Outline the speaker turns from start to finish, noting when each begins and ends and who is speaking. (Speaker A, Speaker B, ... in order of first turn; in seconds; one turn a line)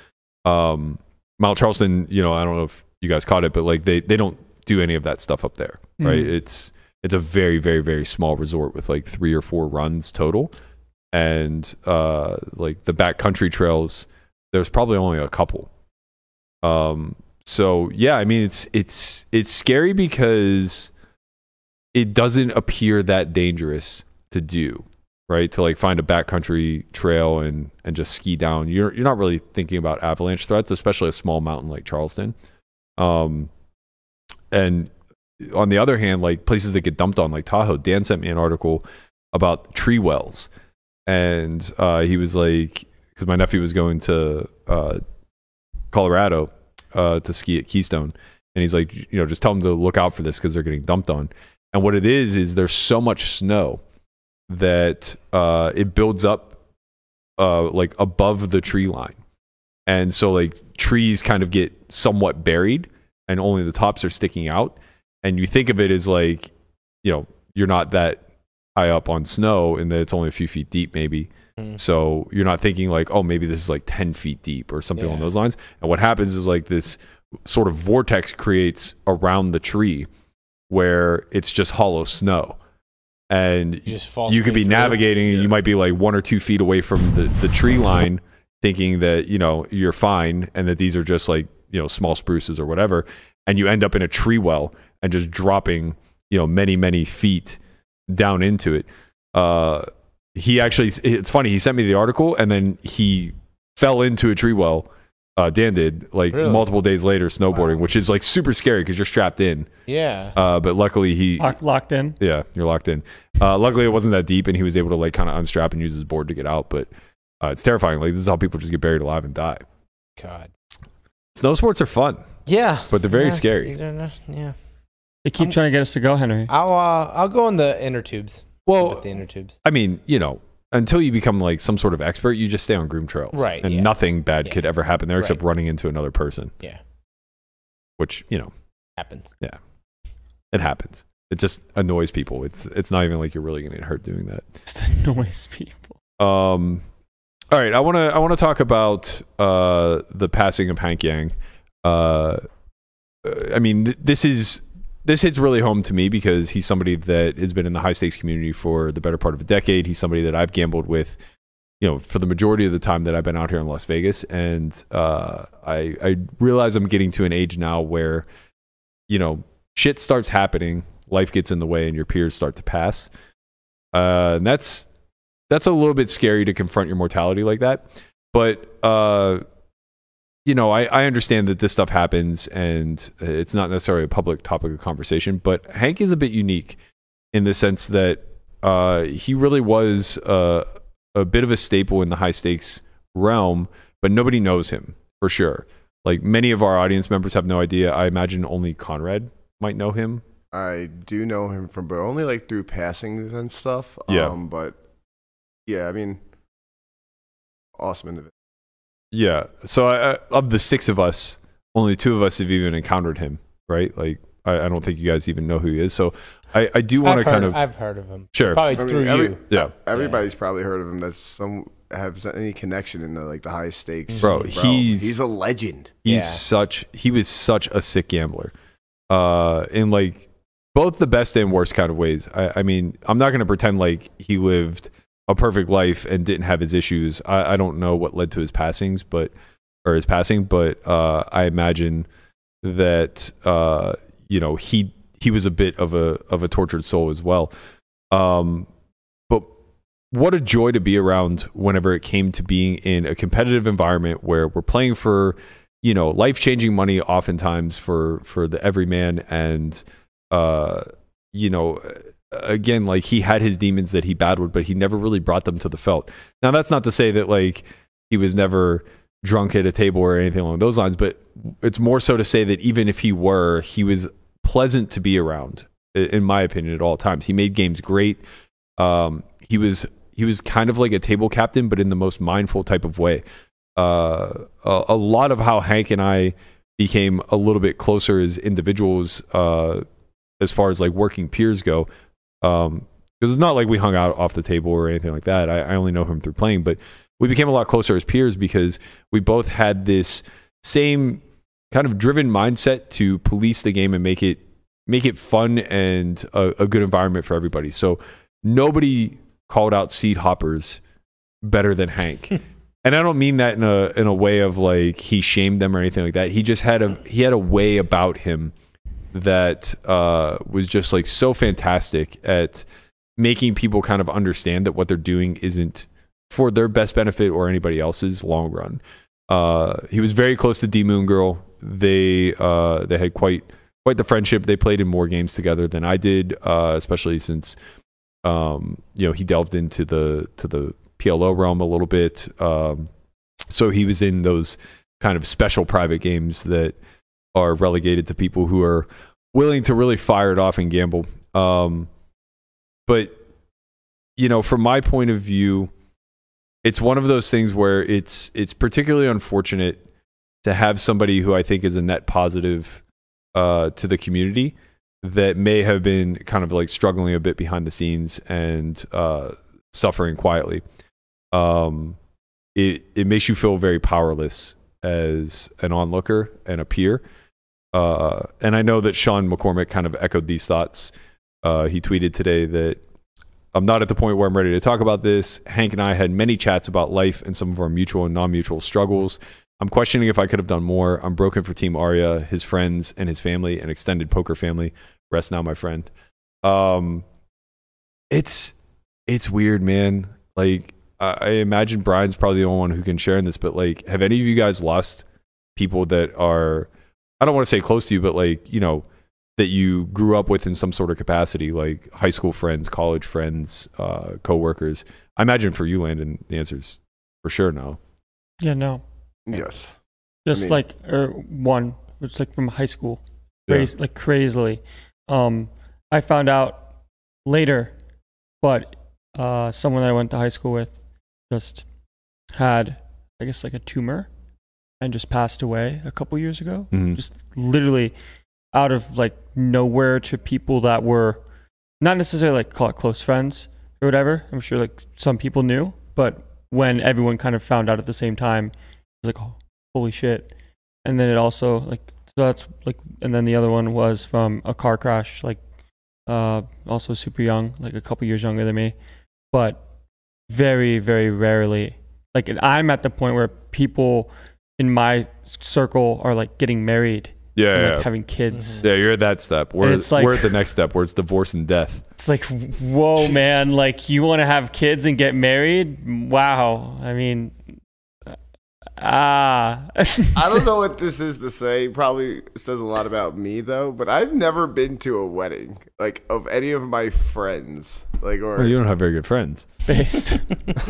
Speaker A: 0.4-10.5
Speaker B: 6.0-6.3
Speaker A: 11.1-15.7
Speaker A: 16.6-20.9
Speaker A: 21.9-32.3
Speaker A: 33.0-33.5
Speaker A: 34.5-40.5
Speaker A: 41.1-45.0
Speaker A: 45.9-53.8
Speaker A: 54.5-56.6
Speaker A: 57.4-59.2
Speaker A: 59.9-66.5
Speaker A: 67.0-68.2
Speaker A: 68.8-80.1
Speaker C: 75.0-75.3
Speaker A: 80.7-82.6
Speaker A: 83.3-109.7
Speaker C: 83.8-85.5
Speaker C: 106.3-106.7
Speaker C: 109.9-110.3
Speaker A: 110.3-111.6
Speaker B: 111.4-112.2
Speaker A: 112.2-116.9
Speaker A: 117.4-119.6
Speaker C: 120.2-120.5
Speaker A: 121.3-122.2
Speaker C: 122.5-124.5
Speaker A: 122.9-123.7
Speaker B: 125.2-126.5
Speaker C: 126.5-129.5
Speaker A: 128.7-129.0
Speaker A: 129.6-136.5
Speaker C: 133.3-134.6
Speaker A: 138.0-138.5
Speaker C: 139.0-139.3
Speaker A: 140.5-144.4
Speaker B: 144.7-145.9
Speaker A: 146.2-146.8
Speaker A: 147.5-152.4
Speaker A: 153.2-161.2
Speaker A: 161.8-168.2
Speaker A: 169.1-173.1
Speaker A: 173.9-174.9
Speaker A: 175.5-179.4
Speaker A: 180.4-186.8
Speaker A: 187.3-200.2
Speaker D: 200.5-204.8
Speaker A: 204.1-204.4
Speaker D: 205.7-206.2
Speaker D: 207.8-208.3
Speaker A: 209.1-217.6
Speaker C: 217.0-220.2
Speaker A: 218.3-218.8
Speaker D: 218.7-226.0
Speaker C: 224.1-224.5
Speaker A: 224.2-225.2
Speaker C: 226.0-226.4
Speaker A: 226.0-228.5
Speaker A: 229.1-239.3
Speaker A: 239.8-242.1
Speaker A: 242.6-247.5
Speaker A: 248.1-248.7
Speaker A: 250.1-278.2
Speaker A: 278.8-283.2
Speaker A: 283.8-289.8
Speaker A: 290.4-291.9
Speaker A: 292.4-310.8
Speaker A: 311.4-318.5
Speaker A: 319.1-322.6
Speaker A: 323.2-337.6
Speaker A: 338.2-342.9
Speaker A: 343.5-346.8
Speaker A: 347.3-351.9
Speaker A: 352.9-353.2
Speaker A: 354.2-355.7
Speaker A: 356.6-359.8
Speaker A: 360.4-362.8
Speaker A: 363.3-370.6
Speaker A: 371.3-372.0
Speaker A: 372.5-377.0
Speaker A: 377.7-382.8
Speaker A: 383.5-395.9
Speaker A: 396.4-397.0
Speaker A: 398.1-398.5
Speaker A: 399.1-405.0
Speaker A: 405.6-406.7
Speaker A: 407.2-408.9
Speaker A: 409.4-417.8
Speaker B: 418.4-418.8
Speaker D: 419.3-419.7
Speaker B: 420.2-426.6
Speaker D: 420.3-420.6
Speaker B: 427.2-427.7
Speaker B: 428.4-430.8
Speaker B: 431.3-431.6
Speaker B: 432.3-434.1
Speaker B: 434.8-437.9
Speaker A: 436.7-437.0
Speaker B: 438.5-441.2
Speaker B: 441.8-450.3
Speaker B: 450.8-455.4
Speaker B: 456.1-458.7
Speaker B: 459.3-459.6
Speaker B: 460.3-468.6
Speaker A: 467.4-467.9
Speaker C: 468.3-468.6
Speaker A: 468.6-471.8
Speaker B: 469.6-470.4
Speaker B: 472.0-477.4
Speaker B: 478.8-480.2
Speaker D: 480.1-488.6
Speaker A: 488.4-489.4
Speaker B: 489.7-490.3